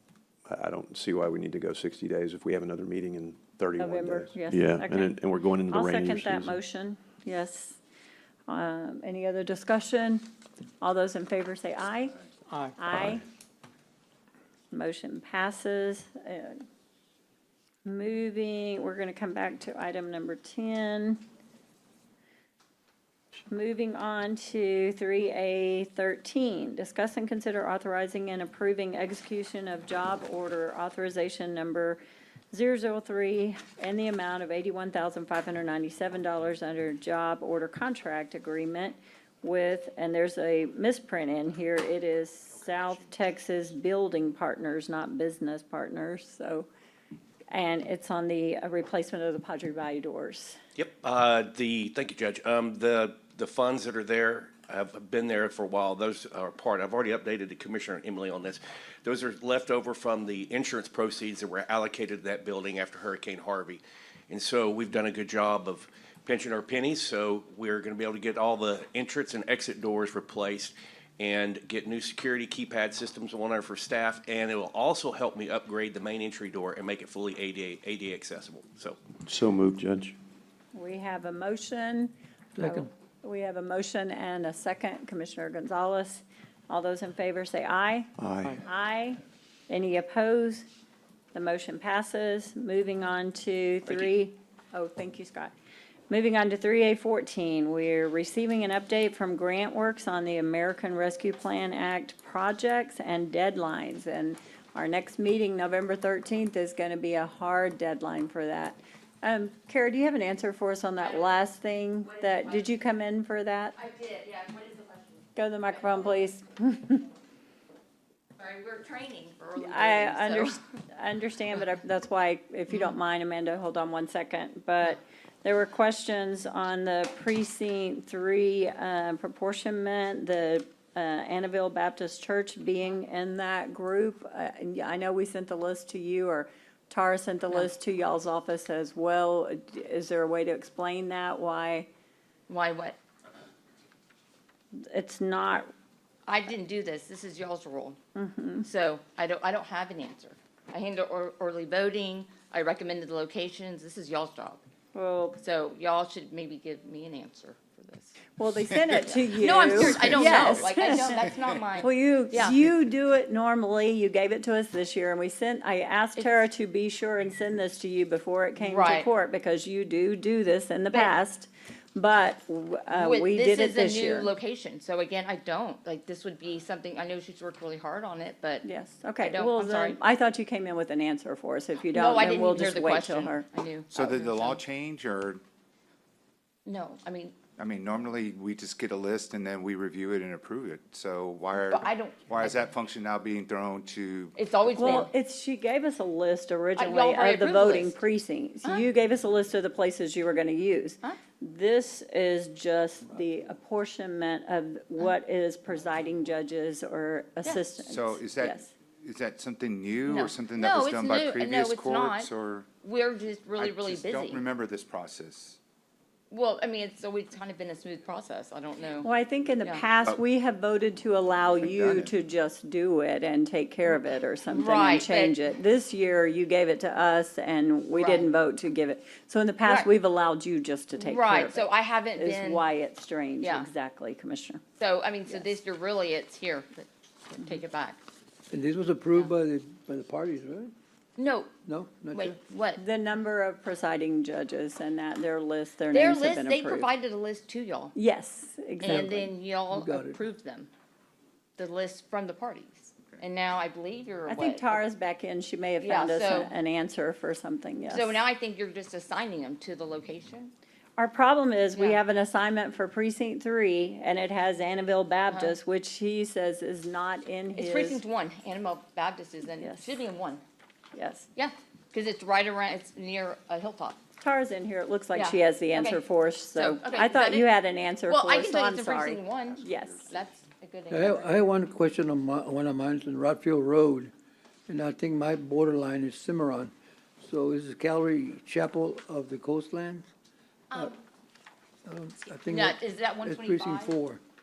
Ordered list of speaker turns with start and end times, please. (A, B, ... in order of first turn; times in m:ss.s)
0:00.5-0:06.6 A
0:03.8-0:07.8 B
0:08.5-0:10.2 B
0:10.8-0:12.2 B
0:12.8-0:13.2 B
0:14.7-0:16.6 B
0:17.8-0:21.2 B
0:23.5-0:32.0 B
0:32.5-0:46.7 B
0:47.5-0:50.6 B
0:50.8-1:19.0 C
1:19.2-1:20.2 A
1:20.7-1:30.6 B
1:22.6-1:22.9 D
1:28.2-1:28.6 A
1:31.3-1:35.5 B
1:36.1-1:53.7 B
1:51.0-1:51.5 E
1:52.0-1:52.7 E
1:53.7-1:56.3 E
1:55.4-1:57.0 B
1:58.4-2:00.6 E
1:59.6-2:21.9 B
2:22.5-2:23.0 E
2:24.8-2:25.7 B
2:26.2-2:28.0 E
2:28.1-2:28.6 B
2:28.6-2:34.6 E
2:34.9-2:35.4 B
2:35.4-2:38.2 E
2:38.4-2:41.2 B
2:38.9-2:42.6 E
2:40.0-2:40.5 F
2:41.8-2:54.3 B
2:48.6-2:49.1 E
2:52.9-2:58.6 E
2:58.6-3:03.4 B
2:59.2-3:00.0 E
3:01.9-3:04.6 E
3:03.9-3:05.4 F
3:06.6-3:07.3 E
3:07.6-3:14.3 F
3:11.6-3:12.6 E
3:14.3-3:15.1 E
3:14.7-3:28.7 B
3:16.8-3:18.0 E
3:27.9-3:32.7 F
3:30.1-3:32.3 E
3:32.8-3:34.4 E
3:33.6-3:35.6 F
3:36.3-3:39.1 E
3:39.0-3:54.6 B
3:39.6-3:39.8 E
3:41.5-3:42.1 F
3:44.5-3:45.4 E
3:47.9-3:48.3 E
3:49.6-3:49.9 E
3:51.0-3:52.6 E
3:53.4-3:53.7 E
3:54.8-3:58.0 E
3:58.5-4:00.7 D
4:01.2-4:01.5 E
4:01.6-4:02.4 D
4:02.1-4:02.8 E
4:02.8-4:06.9 B
4:05.9-4:08.0 E
4:07.9-4:09.3 B
4:08.8-4:10.7 E
4:08.8-4:10.2 D
4:11.6-4:14.8 E
4:14.3-4:18.2 B
4:15.8-4:16.5 E
4:17.9-4:20.5 E
4:21.0-4:28.0 B
4:25.3-4:25.5 E
4:27.5-4:30.4 E
4:29.6-4:30.0 B
4:30.9-4:31.3 B
4:31.3-4:34.0 E
4:34.2-4:40.1 B
4:35.1-4:37.6 E
4:38.1-4:41.5 E
4:39.6-4:40.3 F
4:40.9-4:44.1 D
4:44.7-4:50.1 D
4:50.7-4:51.0 E
4:51.8-4:54.2 D
4:52.5-4:54.0 E